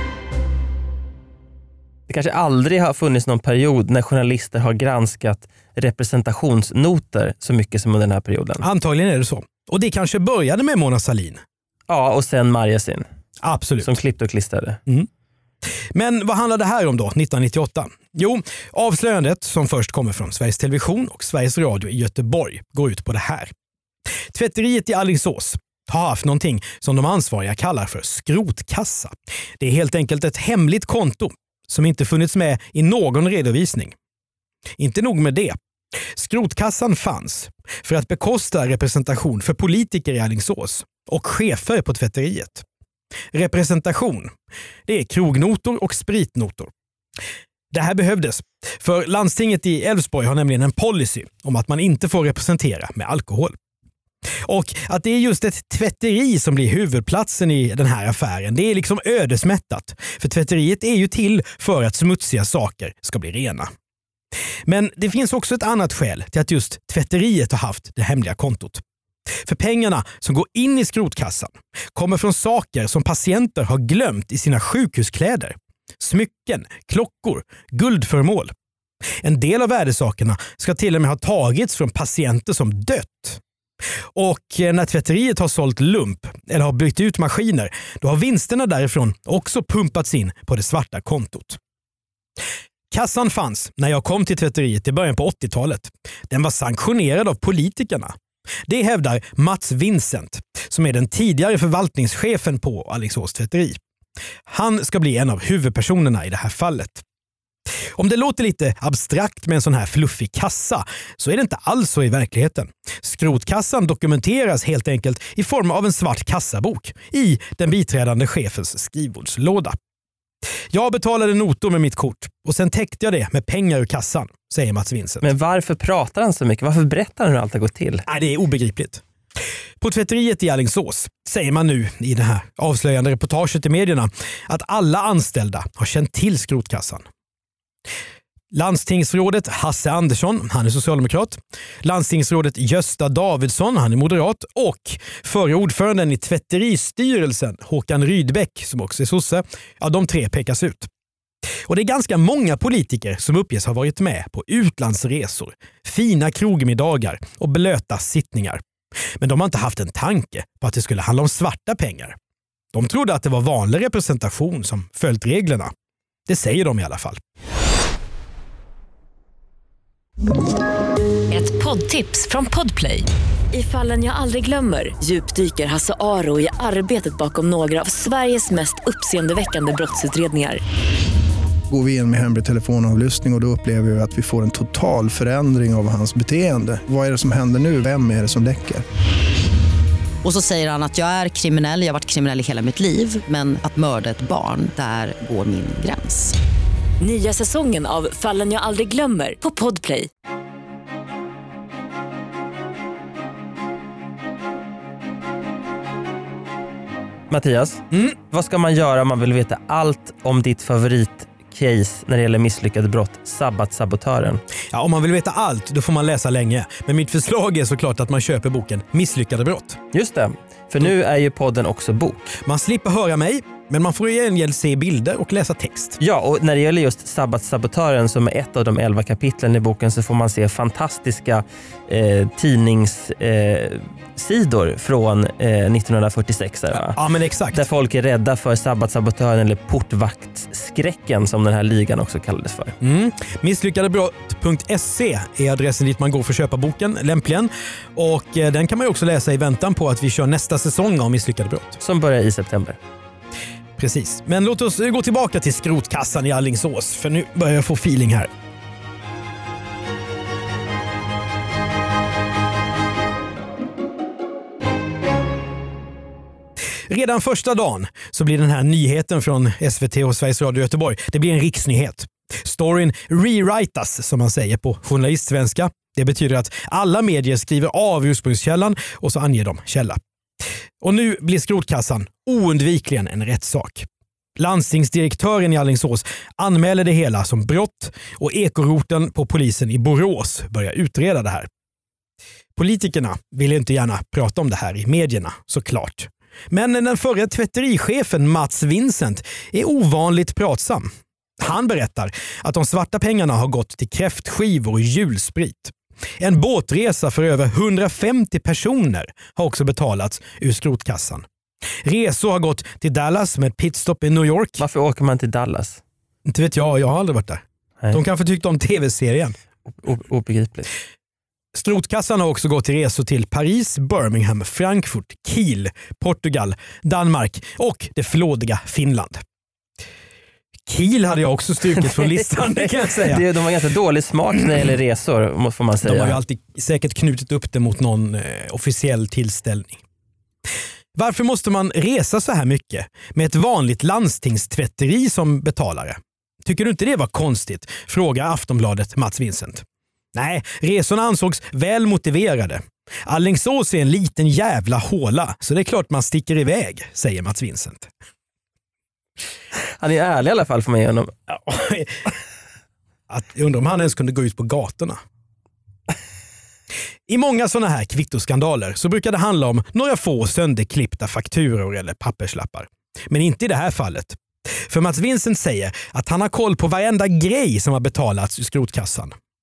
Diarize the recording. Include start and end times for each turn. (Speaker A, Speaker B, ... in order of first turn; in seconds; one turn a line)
Speaker A: 2.1-8.6
Speaker B: 8.6-11.4
Speaker A: 11.9-13.0
Speaker B: 13.4-14.0
Speaker A: 13.8-14.8
Speaker B: 15.9-23.5
Speaker B: 24.3-33.9
Speaker B: 34.8-35.6
Speaker B: 36.1-42.6
Speaker B: 43.3-44.3
Speaker B: 44.9-46.7
Speaker B: 47.7-53.6
Speaker B: 54.5-63.7
Speaker B: 64.7-78.5
Speaker B: 79.2-83.4
Speaker B: 84.1-91.6
Speaker B: 92.9-103.8
Speaker B: 104.5-107.0
Speaker B: 107.9-119.8
Speaker B: 120.7-125.3
Speaker A: 125.2-128.1
Speaker B: 128.1-129.0
Speaker B: 129.8-137.0
Speaker B: 138.5-150.9
Speaker B: 151.7-158.6
Speaker B: 159.2-162.2
Speaker B: 162.7-165.7
Speaker B: 166.3-167.2
Speaker C: 171.3-180.6
Speaker D: 181.7-188.8
Speaker E: 190.2-196.3
Speaker C: 197.0-200.1
Speaker A: 207.3-214.4
Speaker B: 214.7-219.8
Speaker A: 219.9-222.4
Speaker B: 222.4-226.0
Speaker A: 226.0-237.0
Speaker B: 236.7-237.6
Speaker A: 237.5-242.7
Speaker B: 242.8-251.8
Speaker A: 251.8-252.8
Speaker B: 253.8-258.3
Speaker B: 266.9-280.0
Speaker B: 280.8-291.5
Speaker B: 292.5-311.2
Speaker B: 311.8-314.6
Speaker A: 314.6-315.8
Speaker B: 316.2-319.3
Speaker A: 319.8-320.7
Speaker B: 321.5-329.2
Speaker B: 330.6-333.2
Speaker A: 331.8-336.2
Speaker B: 335.8-339.8
Speaker B: 340.9-357.9
Speaker A: 359.8-361.1
Speaker B: 361.3-362.1
Speaker B: 363.1-365.0
Speaker B: 367.1-379.1